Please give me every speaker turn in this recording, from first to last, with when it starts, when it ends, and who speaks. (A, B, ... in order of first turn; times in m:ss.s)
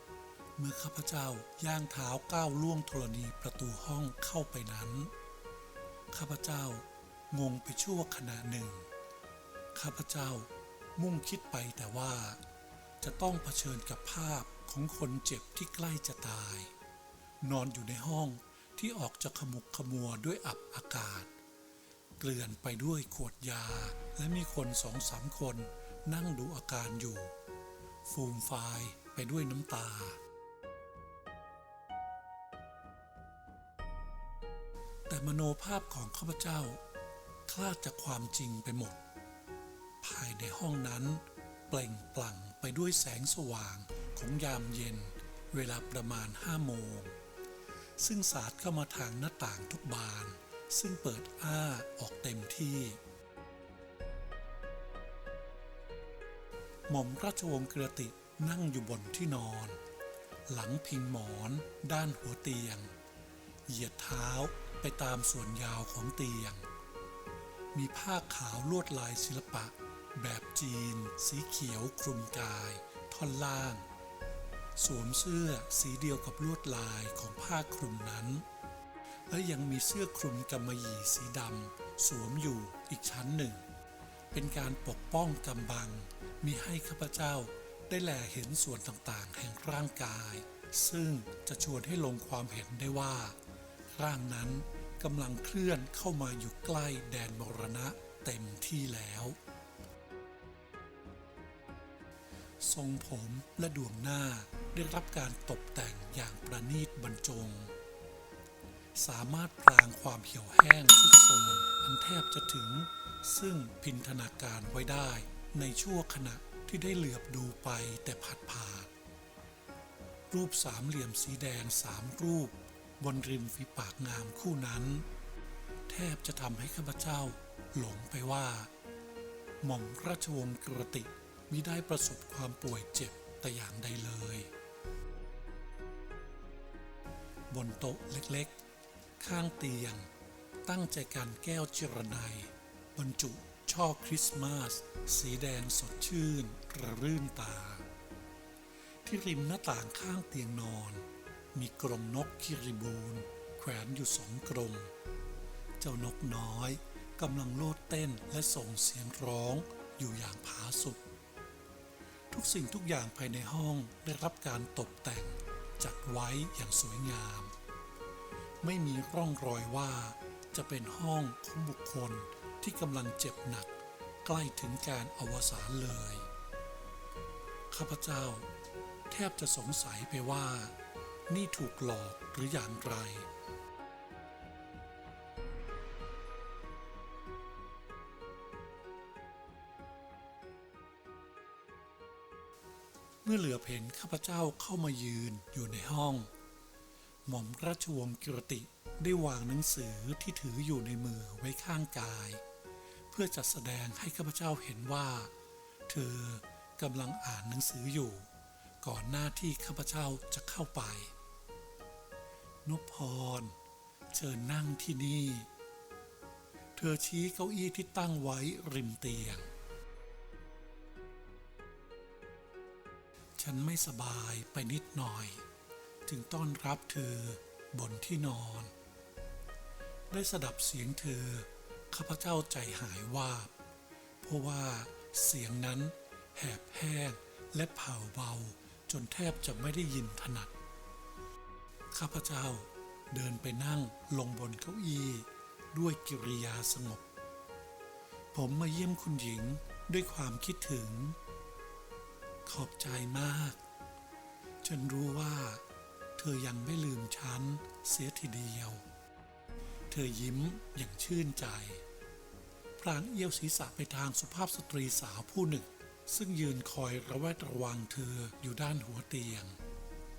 0:00.6-0:05.1 A
0:06.1-0:08.9 A
0:09.8-0:12.4 A
0:13.0-0:16.7 A
0:17.4-0:21.3 A
0:22.2-0:27.3 A
0:28.1-0:30.2 A
0:35.1-0:36.8 A
0:37.5-0:39.0 A
0:40.0-0:47.2 A
0:48.0-0:53.0 A
0:56.9-0:59.8 A
1:00.5-1:02.9 A
1:03.7-1:06.7 A
1:07.7-1:13.8 A
1:14.8-1:18.4 A
1:19.3-1:23.6 A
1:24.3-1:33.4 A
1:33.9-1:39.4 A
1:42.6-1:47.7 A
1:49.0-1:58.9 A
2:00.3-2:05.1 A
2:05.9-2:08.7 A
2:09.6-2:14.5 A
2:17.5-2:18.6 A
2:19.2-2:20.1 A
2:20.7-2:27.9 A
2:29.0-2:34.9 A
2:35.8-2:41.0 A
2:42.3-2:47.5 A
2:48.6-2:56.3 A
2:57.7-2:58.5 A
2:59.1-3:00.8 A
3:01.3-3:03.3 A
3:13.2-3:16.3 A
3:17.3-3:22.4 A
3:23.1-3:25.3 A
3:25.9-3:28.3 A
3:28.8-3:31.1 A
3:32.6-3:33.6 A
3:34.1-3:35.5 A
3:36.8-3:39.5 A
3:43.4-3:45.4 A
3:46.1-3:48.7 A
3:50.1-3:53.5 A
3:54.2-4:00.5 A
4:01.9-4:07.0 A
4:08.3-4:11.2 A
4:12.5-4:13.6 A
4:14.6-4:15.6 A
4:16.2-4:18.8 A
4:19.9-4:21.8 A
4:22.8-4:29.6 A